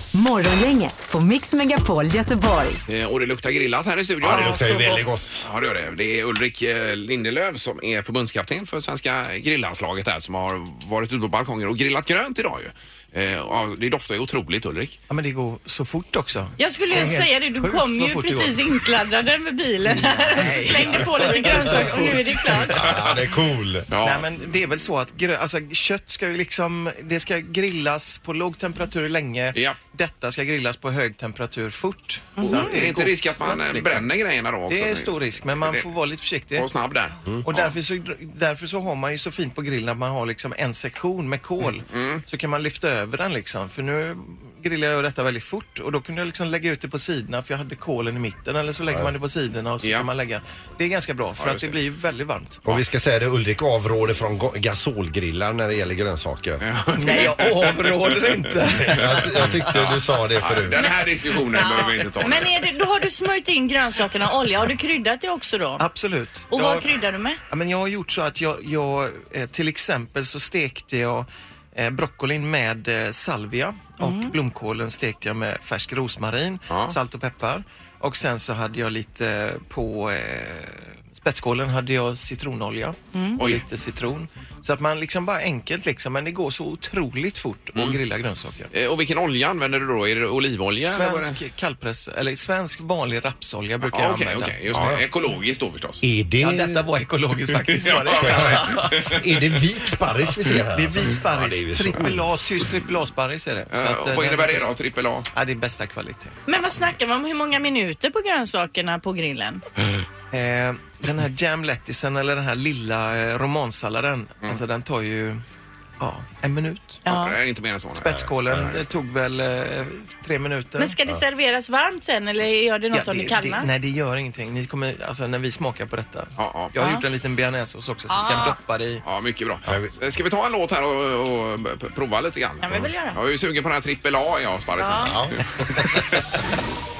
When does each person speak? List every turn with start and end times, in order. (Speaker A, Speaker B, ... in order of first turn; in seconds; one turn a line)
Speaker A: 0.1-2.8
Speaker B: 2.9-15.0
Speaker C: 4.2-5.4
Speaker D: 4.3-5.0
Speaker E: 15.1-18.6
Speaker D: 16.6-22.9
Speaker E: 19.9-22.8
Speaker C: 21.2-21.9
Speaker C: 22.7-23.9
Speaker B: 22.8-23.2
Speaker B: 23.9-24.2
Speaker E: 24.0-34.1
Speaker D: 32.4-32.7
Speaker B: 32.4-35.9
Speaker E: 34.7-36.7
Speaker B: 36.5-37.8
Speaker E: 37.5-52.6
Speaker B: 41.9-42.2
Speaker B: 49.8-50.1
Speaker B: 51.4-51.8
Speaker C: 52.6-56.6
Speaker B: 56.6-62.6
Speaker E: 57.0-59.4
Speaker C: 58.8-60.9
Speaker D: 60.8-65.8
Speaker E: 65.8-66.9
Speaker D: 66.5-67.4
Speaker E: 67.5-88.7
Speaker D: 74.0-74.3
Speaker B: 76.7-77.0
Speaker D: 83.1-83.4
Speaker B: 83.4-83.6
Speaker B: 88.7-91.4
Speaker E: 90.9-95.0
Speaker B: 93.9-96.0
Speaker C: 94.7-95.0
Speaker C: 96.0-96.9
Speaker E: 96.4-99.2
Speaker B: 97.7-99.2
Speaker C: 98.2-102.4
Speaker E: 100.7-104.7
Speaker B: 103.7-105.3
Speaker E: 105.3-106.4
Speaker D: 106.5-109.6
Speaker E: 110.3-115.4
Speaker E: 116.0-117.0
Speaker D: 117.0-117.4
Speaker B: 117.1-118.9
Speaker E: 117.9-121.0
Speaker D: 120.8-123.7
Speaker E: 122.9-129.0
Speaker B: 126.4-126.7
Speaker D: 126.8-127.0
Speaker D: 128.1-128.6
Speaker B: 129.0-136.3
Speaker C: 129.7-129.9
Speaker D: 132.6-133.2
Speaker D: 134.8-135.2
Speaker C: 135.0-136.1